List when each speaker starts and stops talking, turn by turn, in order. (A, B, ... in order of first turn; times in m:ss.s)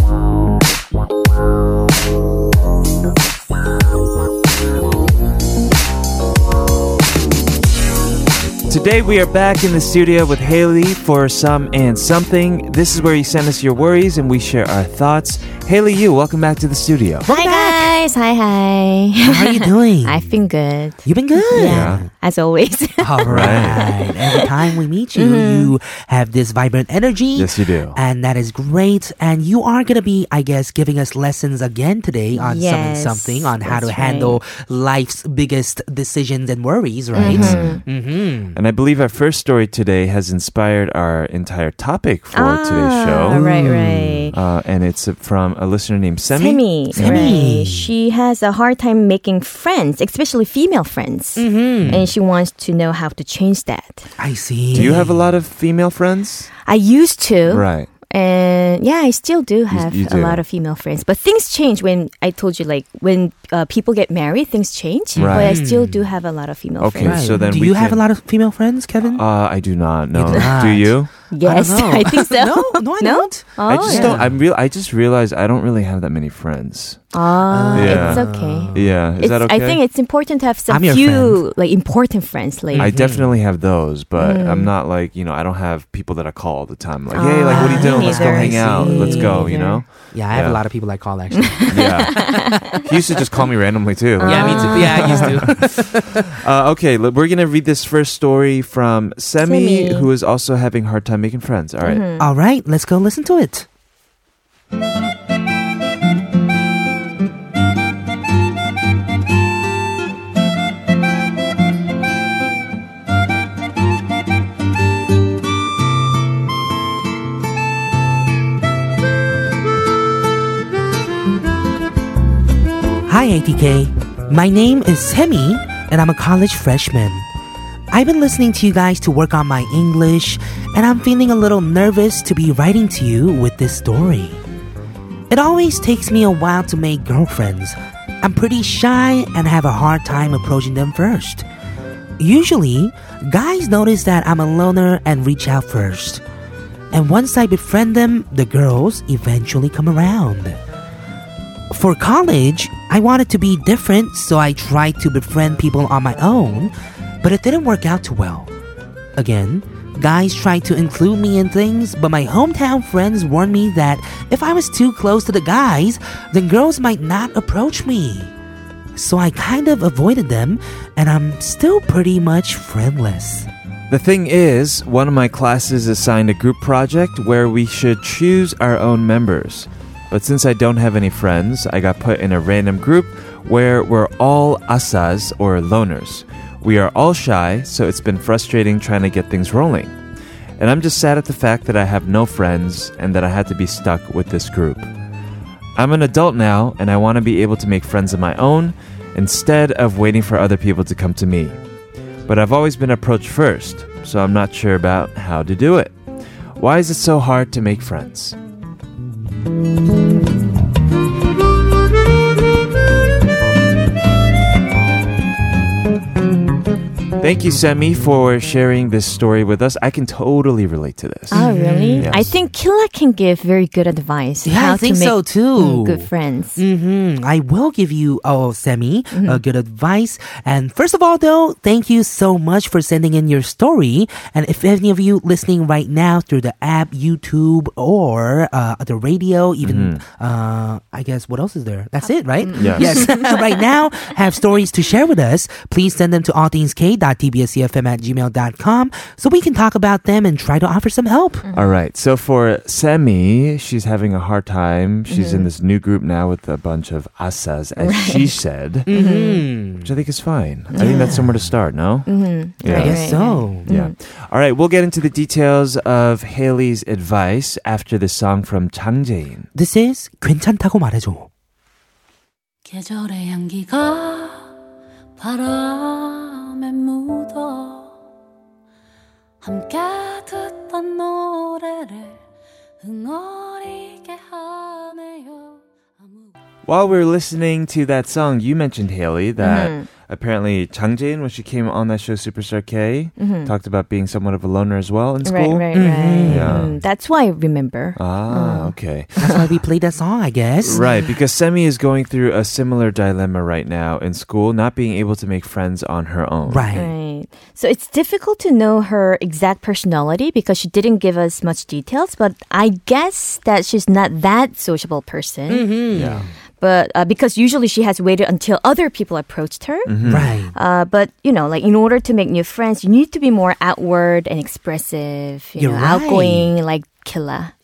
0:08.7-0:17.3 A
0:17.2-0:18.0 B
0:17.3-0:25.7 C
0:19.2-0:20.4 B
0:21.0-0:22.1 B
0:21.6-0:22.0 A
0:23.0-0:38.6 B
0:23.3-0:23.8 A
0:27.4-0:28.0 A
0:32.4-0:34.4 C
0:37.1-0:37.8 C
0:37.3-0:37.8 A
0:38.6-0:47.4 A
0:42.3-0:44.4 C
0:43.3-0:44.3 B
0:46.3-0:54.1 C
0:46.9-0:47.9 B
0:51.4-0:52.1 B
0:54.2-0:55.2 B
0:54.7-0:56.5 A
0:56.7-1:07.3 C
0:57.5-0:57.9 A
0:59.7-1:00.4 A
1:05.2-1:05.6 A
1:05.2-1:06.1 B
1:06.8-1:08.0 A
1:07.0-1:09.2 B
1:09.1-1:11.1 A
1:10.1-1:14.4 B
1:11.3-1:14.2 C
1:13.7-1:17.0 A
1:17.1-1:22.9 C
1:17.5-1:19.0 B
1:17.7-1:19.8 A
1:20.7-1:21.4 B
1:22.8-1:23.3 B
1:22.8-1:30.6 A
1:24.2-1:24.7 C
1:27.1-1:29.8 C
1:27.5-1:29.6 B
1:30.1-1:32.5 B
1:31.4-1:32.7 C
1:31.7-1:42.0 A
1:34.2-1:35.4 C
1:34.2-1:36.2 B
1:39.4-1:40.1 C
1:41.8-1:42.3 C
1:42.2-1:43.7 B
2:03.1-2:07.3 B
2:07.9-2:14.4 B
2:15.3-2:21.5 B
2:22.2-2:26.2 B
2:26.9-2:30.6 B
2:31.7-2:38.5 B
2:39.2-2:48.3 B
2:49.0-2:53.5 B
2:53.9-3:09.9 A
3:10.6-3:14.9 A
3:15.8-3:21.6 A
3:22.3-3:25.9 A
3:26.6-3:28.4 A
3:37.2-3:41.4 A
3:41.3-3:46.6 C
3:41.3-3:42.2 B
3:42.0-3:42.3 A
3:44.4-4:11.4 B
3:49.1-3:49.4 C
3:59.6-4:00.0 A
4:02.4-4:03.4 C
4:02.6-4:03.1 A
4:11.4-4:11.8 C
4:11.5-4:18.9 A
4:15.1-4:15.5 C
4:17.8-4:18.4 C
4:18.9-4:19.9 B
4:18.9-4:19.5 C
4:19.8-4:22.1 A
4:20.7-4:21.1 C
4:20.8-4:21.5 B
4:22.1-4:23.9 C
4:22.6-4:23.1 A
4:22.7-4:23.7 B
4:23.7-4:29.5 A
4:29.6-4:31.3 B
4:32.7-4:34.6 D
4:35.2-4:38.0 D
4:39.4-4:42.2 D
4:42.8-4:46.3 D
4:46.7-4:56.8 A
4:49.4-4:49.9 C
4:53.2-4:53.5 C
4:55.2-4:58.8 C
4:55.7-4:56.7 B
4:58.0-4:59.2 A
4:59.2-5:00.8 B
5:00.6-5:06.7 A
5:00.7-5:01.1 C
5:06.5-5:06.9 B
5:06.7-5:15.7 C
5:15.5-5:16.3 B
5:15.9-5:16.3 A
5:16.6-5:19.9 C
5:19.9-5:20.3 A
5:20.0-5:20.6 B
5:20.5-5:27.5 C
5:25.6-5:26.5 B